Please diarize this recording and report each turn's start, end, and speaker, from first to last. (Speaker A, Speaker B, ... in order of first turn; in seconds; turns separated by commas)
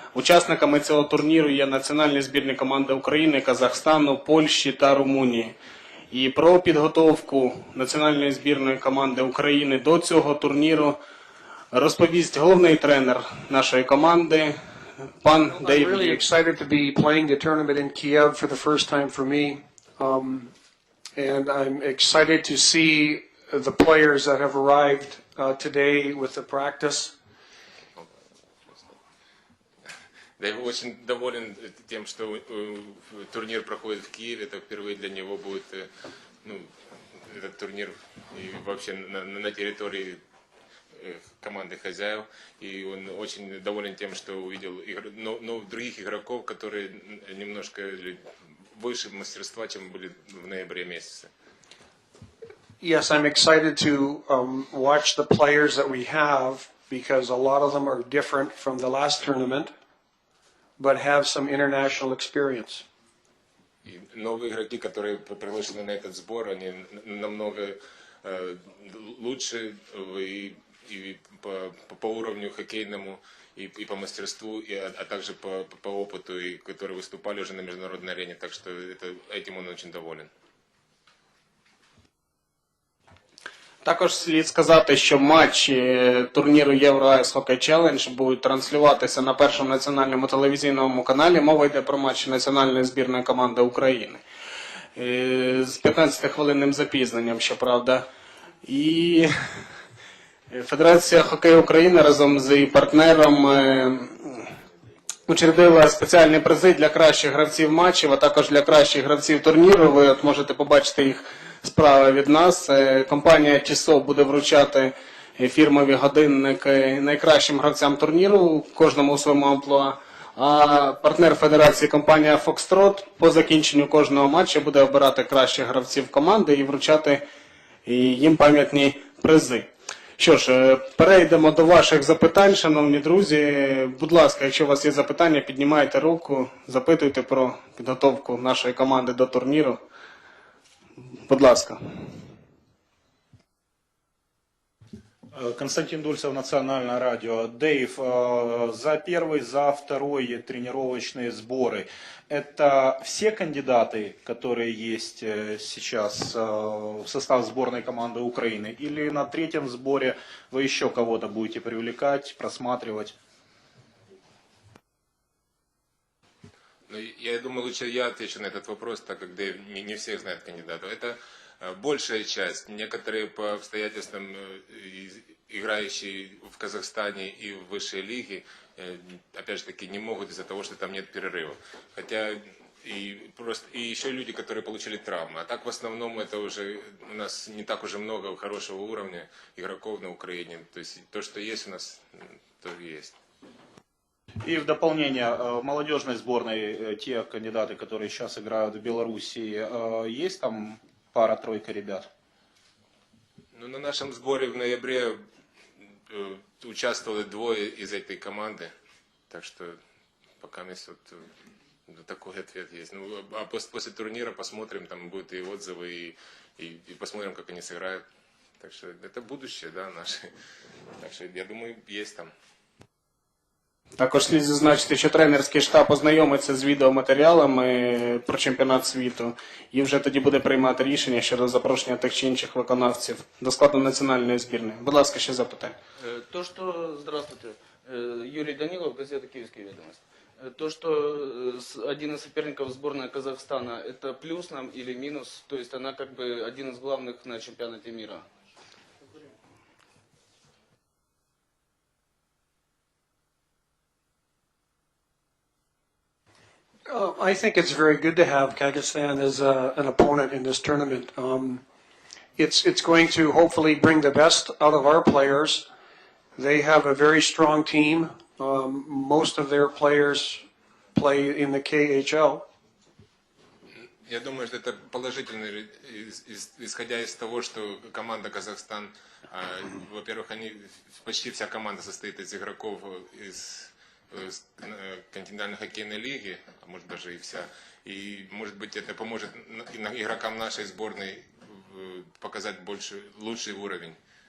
Speaker A: 0.1-5.5, Speaker A: 6.1-11.0, Speaker A: 11.7-14.5, Speaker A: 15.2-16.2, Speaker B: 15.6-20.5, Speaker B: 21.1-27.1, Speaker C: 30.4-35.9, Speaker C: 36.4-40.2, Speaker C: 40.9-48.2, Speaker C: 48.7-51.3, Speaker B: 52.8-59.7, Speaker B: 60.8-62.8, Speaker C: 63.8-80.3, Speaker A: 83.8-94.2, Speaker A: 95.0-98.0, Speaker A: 98.7-99.3, Speaker A: 100.5-104.5, Speaker A: 105.3-127.2, Speaker A: 127.8-139.8, Speaker A: 141.2-141.8, Speaker D: 145.3-163.1, Speaker C: 166.9-193.2, Speaker D: 194.4-202.1, Speaker C: 203.5-205.2, Speaker C: 206.1-208.7, Speaker C: 209.3-209.8, Speaker C: 210.4-211.3, Speaker C: 211.9-218.0, Speaker C: 218.6-220.3, Speaker C: 221.0-222.3, Speaker A: 224.0-235.8, Speaker E: 236.0-248.3, Speaker B: 256.9-261.6, Speaker B: 262.4-265.7, Speaker B: 266.4-272.4, Speaker C: 274.1-294.0